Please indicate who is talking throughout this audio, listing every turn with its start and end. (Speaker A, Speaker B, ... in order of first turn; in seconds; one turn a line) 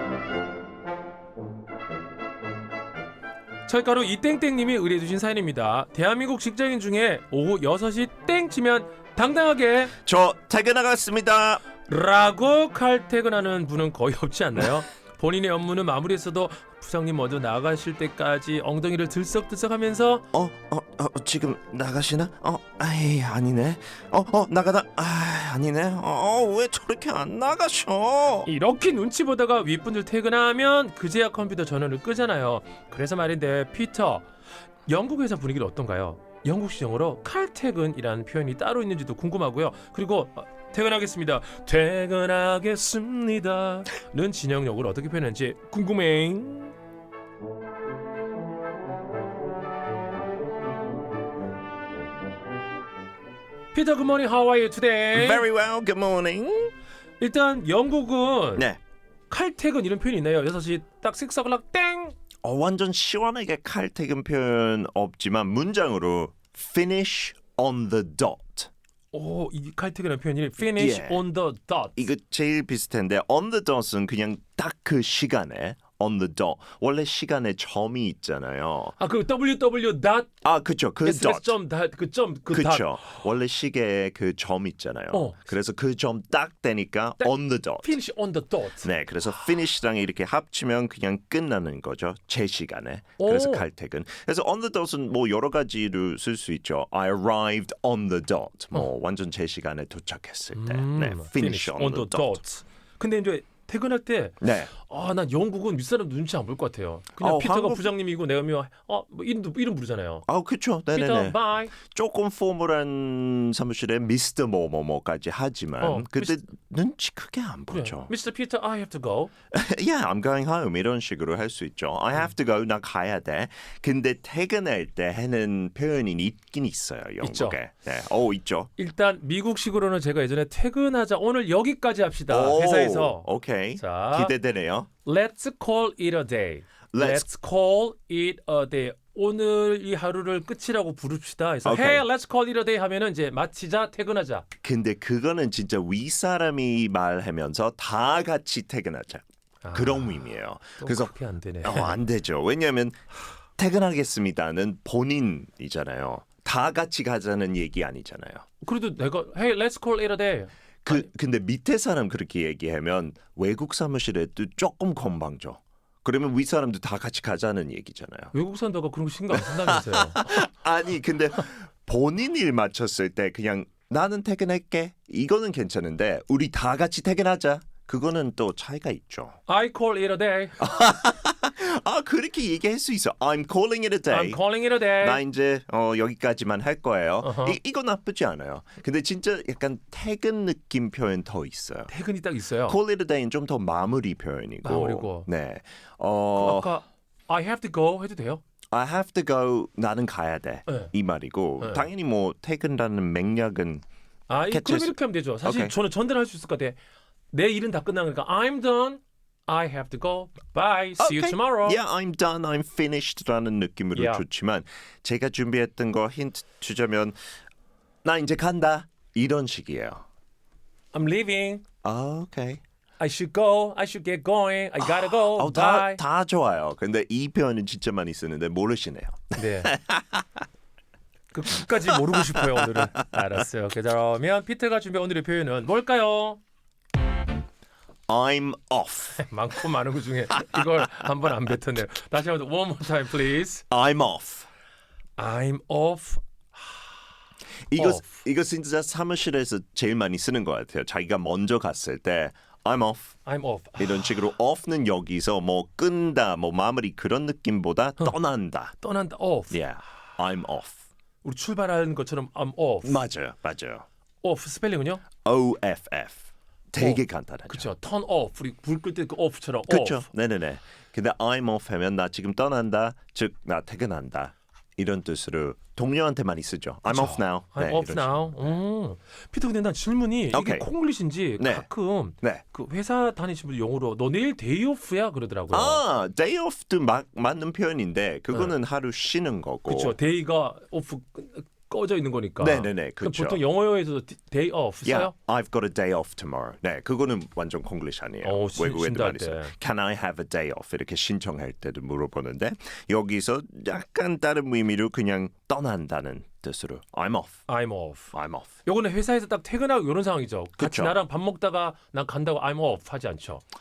Speaker A: 3.7-9.9
Speaker B: 10.0-11.6
Speaker A: 11.9-20.2
Speaker B: 20.3-28.5
Speaker A: 28.4-34.2
Speaker A: 34.9-46.7
Speaker A: 53.7-55.4
Speaker B: 55.1-56.7
Speaker A: 57.2-58.7
Speaker A: 59.3-62.1
Speaker B: 62.4-68.7
Speaker A: 69.1-72.1
Speaker B: 70.6-71.2
Speaker B: 72.0-78.9
Speaker A: 79.0-80.3
Speaker B: 80.4-81.5
Speaker A: 81.0-83.2
Speaker B: 82.5-88.0
Speaker A: 85.1-85.4
Speaker A: 87.2-88.9
Speaker B: 88.8-102.4
Speaker A: 93.2-93.7
Speaker A: 100.5-110.2
Speaker B: 104.4-104.7
Speaker B: 107.2-107.9
Speaker B: 110.3-118.1
Speaker A: 110.9-111.7
Speaker A: 115.8-116.3
Speaker A: 117.7-119.3
Speaker B: 119.5-128.7
Speaker A: 127.2-127.6
Speaker A: 128.8-133.2
Speaker B: 132.3-134.9
Speaker A: 133.8-134.3
Speaker A: 135.0-144.4
Speaker B: 136.9-137.2
Speaker B: 141.6-142.0
Speaker B: 144.6-153.0
Speaker A: 149.6-150.3
Speaker A: 150.8-152.0
Speaker B: 153.6-158.4
Speaker A: 158.6-161.1
Speaker B: 160.8-168.3
Speaker A: 168.3-170.4
Speaker B: 169.3-179.4
Speaker A: 179.5-180.6
Speaker B: 180.6-191.9
Speaker A: 184.1-185.2
Speaker A: 187.2-187.6
Speaker A: 191.9-192.8
Speaker B: 192.7-196.7
Speaker A: 194.6-195.3
Speaker A: 196.4-198.4
Speaker B: 198.7-203.8
Speaker A: 201.6-201.9
Speaker A: 204.3-206.8
Speaker B: 204.5-205.8
Speaker A: 207.3-211.8
Speaker B: 211.0-217.2
Speaker A: 213.9-214.2
Speaker B: 218.0-220.0
Speaker A: 220.9-221.6
Speaker B: 221.8-222.6
Speaker A: 223.0-226.0
Speaker B: 224.8-230.2
Speaker A: 229.3-229.7
Speaker A: 231.3-236.4
Speaker B: 232.3-232.9
Speaker B: 238.1-239.2
Speaker A: 239.2-243.7
Speaker B: 243.7-244.5
Speaker A: 245.2-246.8
Speaker B: 247.7-253.2
Speaker A: 247.8-248.1
Speaker A: 253.2-254.2
Speaker B: 253.8-258.7
Speaker A: 258.8-259.6
Speaker B: 259.5-260.8
Speaker A: 261.2-263.0
Speaker B: 262.8-263.9
Speaker A: 264.2-265.0
Speaker B: 265.2-267.7
Speaker A: 266.8-270.1
Speaker B: 269.7-278.5
Speaker A: 276.9-285.8
Speaker B: 280.3-280.7
Speaker B: 281.4-281.6
Speaker B: 285.5-289.9
Speaker A: 289.7-295.1
Speaker B: 292.4-293.4
Speaker B: 294.8-307.4
Speaker A: 298.2-299.5
Speaker A: 307.5-308.1
Speaker B: 308.1-308.5
Speaker A: 308.6-313.4
Speaker B: 310.6-310.9